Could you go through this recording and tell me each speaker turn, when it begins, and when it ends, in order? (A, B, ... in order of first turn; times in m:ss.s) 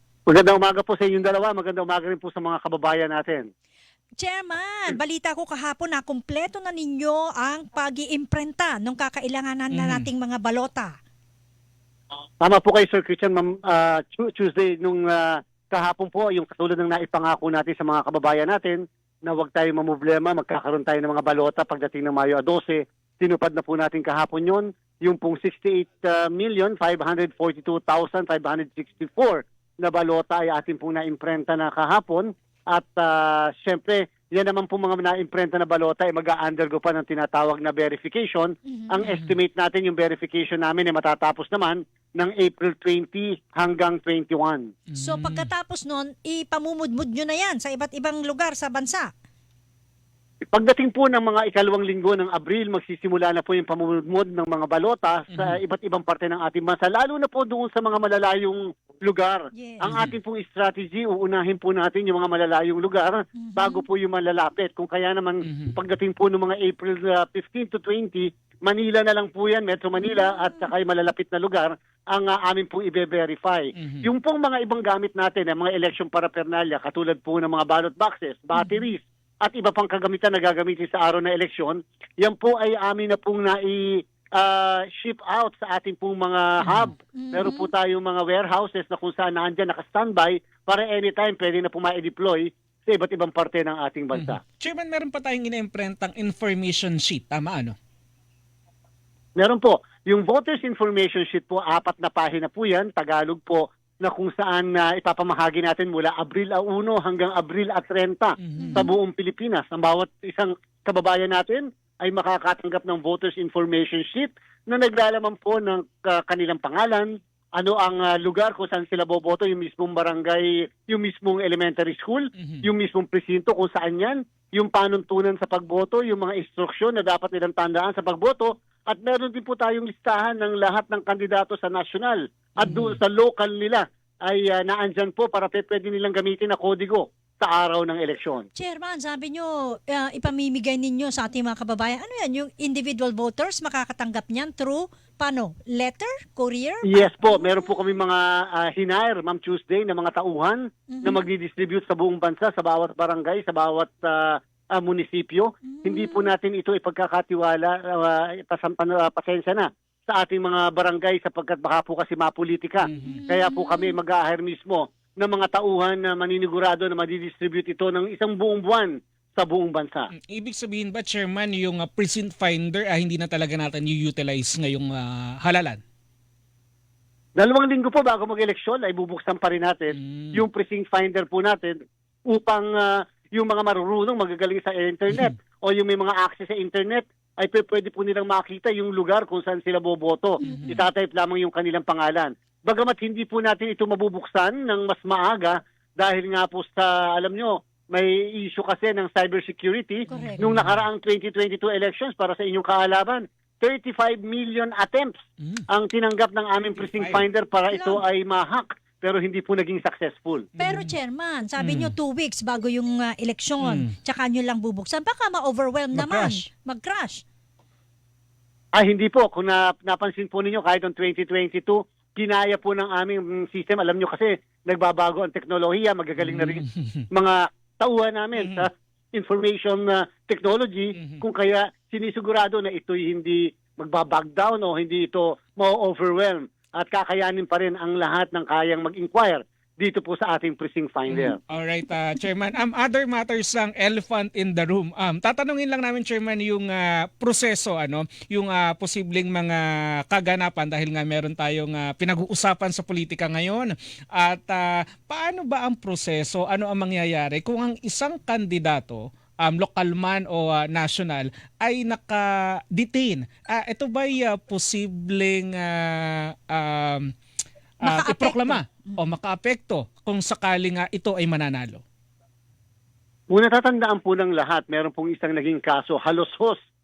0:00.3-0:03.5 A
0:04.2-0:11.0 B
0:09.7-0:10.1 C
0:12.4-0:44.7 A
0:38.7-0:39.0 B
0:39.0-0:39.4 C
0:44.9-0:45.5 C
0:45.0-0:49.1 B
0:50.5-1:34.4 A
0:55.3-0:55.6 C
0:59.5-0:59.9 B
0:59.9-1:00.1 C
1:03.4-1:03.8 B
1:05.4-1:05.8 C
1:10.0-1:10.7 B
1:13.8-1:14.1 C
1:18.5-1:18.9 B
1:26.6-1:26.9 C
1:27.2-1:27.7 B
1:34.2-1:37.8 C
1:39.4-2:18.5 A
1:48.4-1:48.9 C
1:48.6-1:48.9 B
2:02.4-2:02.7 C
2:12.6-2:13.0 C
2:18.6-2:27.7 B
2:26.9-2:50.1 A
2:30.9-2:31.2 B
2:35.6-2:36.3 B
2:42.8-2:43.2 C
2:43.0-2:44.0 B
2:50.2-2:55.8 C
2:57.4-3:25.2 A
2:59.9-3:00.4 C
3:10.4-3:10.8 B
3:10.4-3:10.8 C
3:20.1-3:20.4 B
3:20.1-3:20.8 C
3:25.4-3:25.6 C
3:25.7-3:30.5 A
3:26.8-3:27.2 C
3:27.7-3:28.0 B
3:30.6-3:30.9 C
3:30.6-3:37.2 B
3:31.6-3:31.9 C
3:33.6-3:33.9 C
3:35.9-3:36.4 C
3:38.8-4:01.4 A
3:46.2-3:47.1 C
3:48.4-3:48.7 C
3:51.0-3:51.2 C
4:01.1-4:27.1 C
4:27.8-4:31.8 C
4:27.8-4:29.0 B
4:33.3-4:36.6 A